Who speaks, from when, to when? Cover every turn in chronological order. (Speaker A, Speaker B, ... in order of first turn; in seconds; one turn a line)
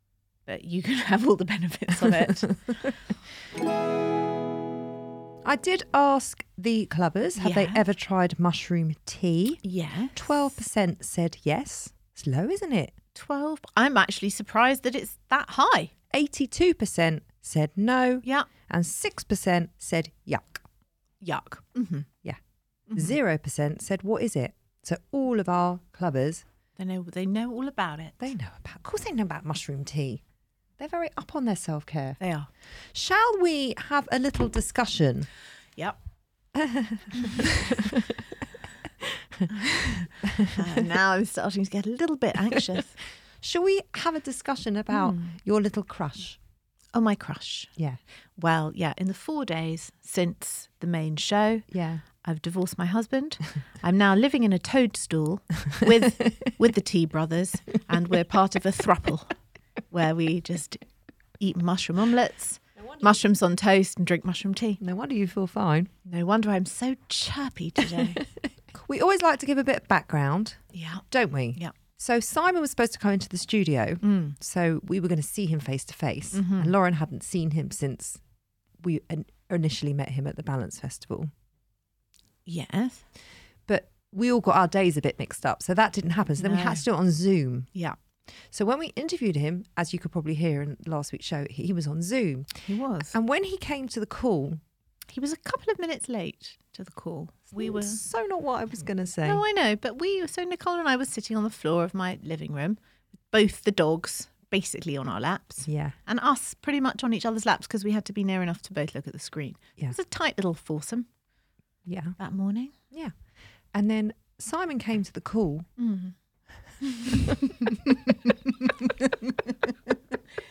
Speaker A: 0.5-2.8
Speaker B: 5.4-9.6
Speaker A: 7.4-7.8
Speaker A: 9.6-10.4
Speaker B: 10.2-12.9
Speaker A: 13.2-15.9
Speaker B: 16.1-20.6
Speaker A: 21.2-22.1
Speaker A: 22.9-23.1
Speaker B: 22.9-26.4
Speaker A: 26.8-28.2
Speaker B: 28.2-30.2
Speaker B: 30.8-32.2
Speaker A: 32.2-32.5
Speaker B: 32.9-35.3
Speaker B: 36.5-38.2
Speaker A: 39.5-43.0
Speaker B: 40.3-40.7
Speaker B: 43.4-46.4
Speaker A: 44.9-45.4
Speaker A: 46.9-47.7
Speaker A: 48.4-51.7
Speaker B: 51.7-52.0
Speaker A: 52.2-59.3
Speaker A: 59.9-60.8
Speaker A: 61.4-64.8
Speaker B: 62.8-63.2
Speaker B: 64.8-65.9
Speaker A: 66.1-68.2
Speaker B: 68.0-78.2
Speaker A: 70.7-71.0
Speaker A: 74.0-74.3
Speaker A: 76.3-76.7
Speaker B: 78.8-81.3
Speaker A: 82.5-83.0
Speaker B: 83.7-87.7
Speaker A: 86.4-86.8
Speaker B: 88.5-94.6
Speaker A: 92.7-93.2
Speaker A: 95.1-98.0
Speaker B: 97.6-99.4
Speaker A: 99.2-102.8
Speaker A: 103.3-111.1
Speaker B: 105.7-106.0
Speaker B: 111.9-112.2
Speaker A: 112.2-112.7
Speaker B: 113.7-115.7
Speaker A: 115.8-116.1
Speaker A: 116.8-117.8